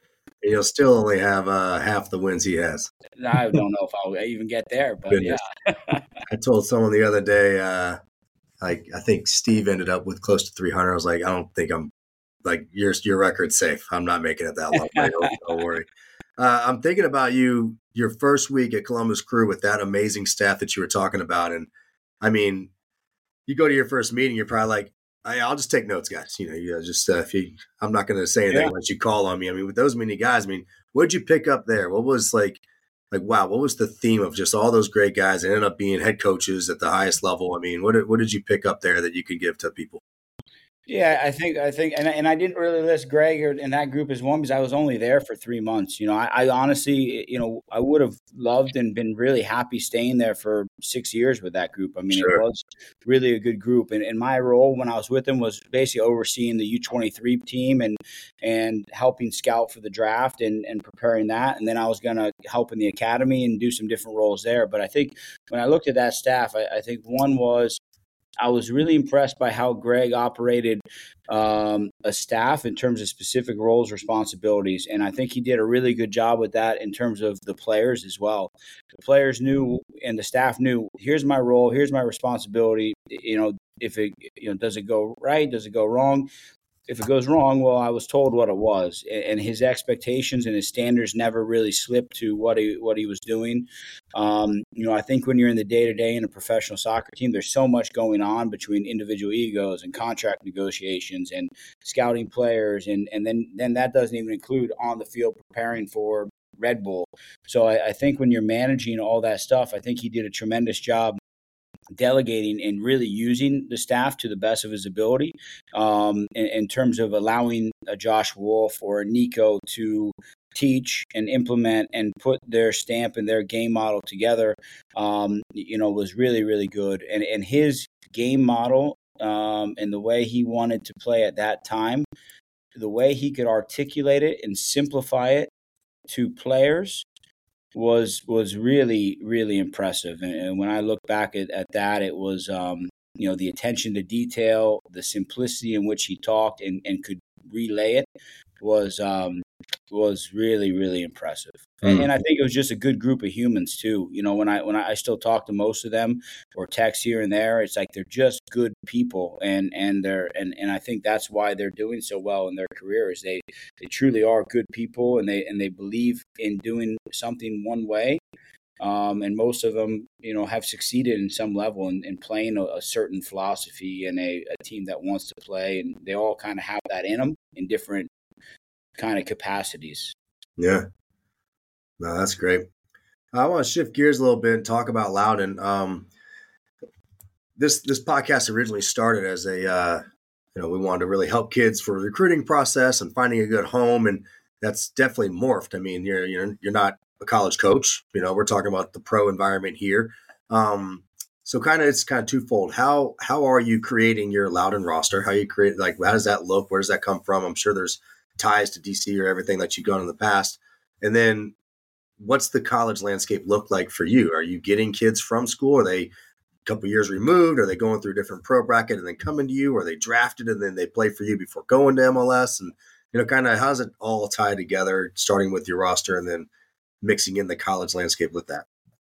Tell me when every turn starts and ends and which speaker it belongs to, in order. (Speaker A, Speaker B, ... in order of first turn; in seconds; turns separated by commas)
Speaker A: 0.4-2.9, Speaker B: 3.2-6.0, Speaker A: 5.1-5.4, Speaker A: 6.3-8.0, Speaker A: 8.6-11.9, Speaker A: 12.4-15.9, Speaker B: 14.8-15.3, Speaker A: 16.4-21.7, Speaker A: 22.2-22.7, Speaker A: 23.5-32.6, Speaker A: 33.1-40.0, Speaker B: 40.9-67.8, Speaker A: 52.1-52.4, Speaker B: 68.4-86.3, Speaker B: 86.9-111.2, Speaker B: 111.9-132.1, Speaker B: 132.7-135.5, Speaker B: 136.1-137.1, Speaker B: 137.7-148.1, Speaker B: 148.6-168.2, Speaker B: 168.8-178.1, Speaker B: 179.0-180.1, Speaker A: 180.6-180.8, Speaker A: 182.0-182.7, Speaker A: 183.3-186.1, Speaker A: 187.6-190.0, Speaker A: 190.5-211.5, Speaker A: 212.2-216.1, Speaker A: 216.6-226.5, Speaker A: 227.0-228.7